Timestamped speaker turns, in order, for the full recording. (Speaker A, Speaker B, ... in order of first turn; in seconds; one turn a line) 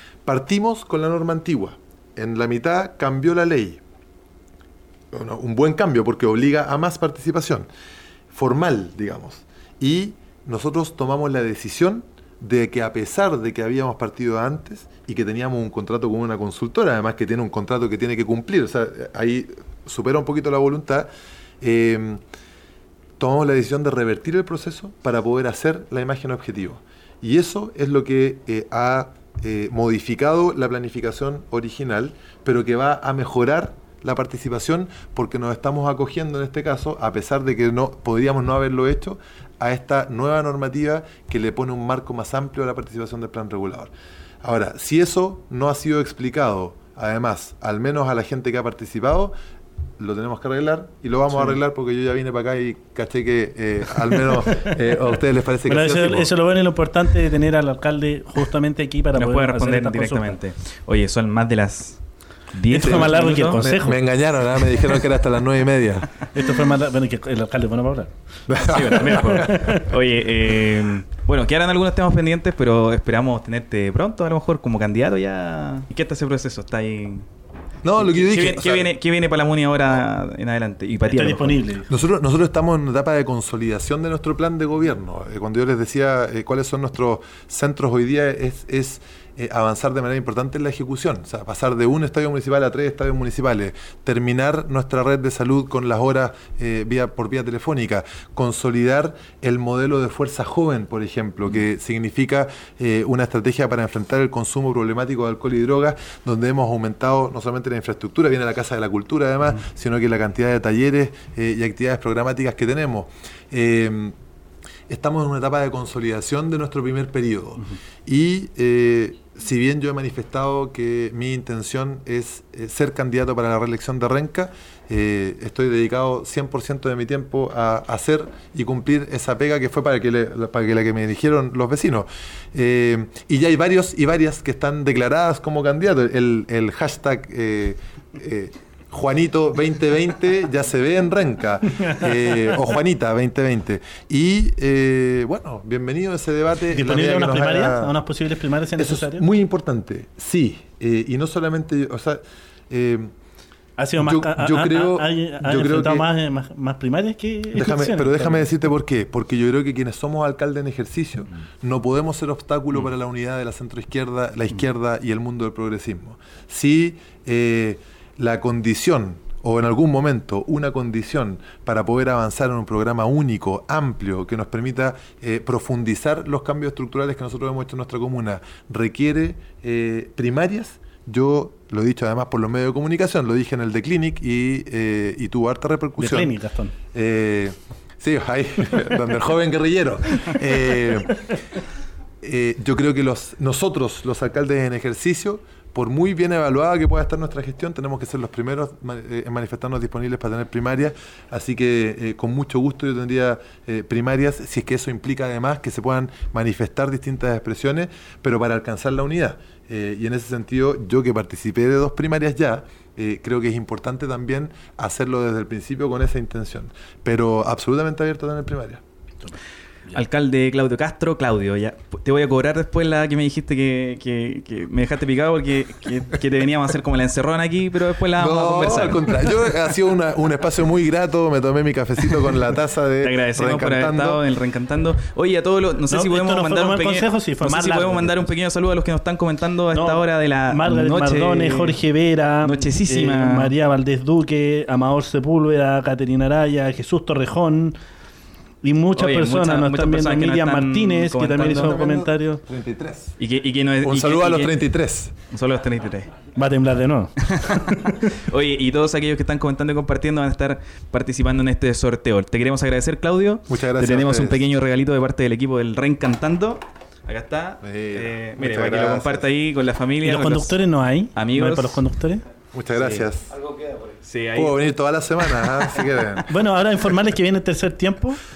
Speaker A: 0.2-3.8
Speaker A: 5.1-7.7
Speaker A: 8.3-21.1
Speaker A: 21.6-22.2
Speaker A: 23.2-49.3
Speaker A: 50.0-56.3
Speaker B: 54.2-54.7
Speaker B: 55.7-60.4
Speaker C: 59.1-63.6
Speaker A: 62.7-66.1
Speaker B: 62.7-64.0
Speaker B: 66.3-68.1
Speaker A: 68.5-69.7
Speaker C: 68.6-77.3
Speaker B: 69.0-69.8
Speaker A: 77.8-78.9
Speaker C: 78.0-81.6
Speaker B: 81.1-81.9
Speaker A: 81.9-114.2
Speaker A: 114.9-147.9
Speaker B: 141.8-142.1
Speaker B: 146.7-149.3
Speaker A: 148.8-153.1
Speaker B: 153.8-158.5
Speaker A: 154.0-156.1
Speaker A: 157.5-186.3
Speaker B: 186.0-186.8
Speaker A: 186.9-191.3
Speaker A: 192.2-218.8
Speaker B: 219.2-220.0
Speaker C: 219.9-229.3
Speaker A: 228.2-234.2
Speaker C: 233.0-241.8
Speaker B: 235.9-238.3
Speaker B: 239.7-247.8
Speaker C: 242.4-243.5
Speaker B: 248.6-252.4
Speaker C: 249.0-251.8
Speaker A: 251.5-253.2
Speaker C: 253.2-254.6
Speaker A: 253.8-255.2
Speaker C: 255.3-256.2
Speaker B: 256.4-257.9
Speaker C: 257.3-270.6
Speaker A: 263.5-264.4
Speaker A: 267.6-269.3
Speaker B: 270.0-272.2
Speaker C: 271.1-271.9
Speaker A: 272.5-273.3
Speaker C: 272.8-274.6
Speaker A: 274.4-276.3
Speaker C: 275.2-276.2
Speaker B: 276.3-278.2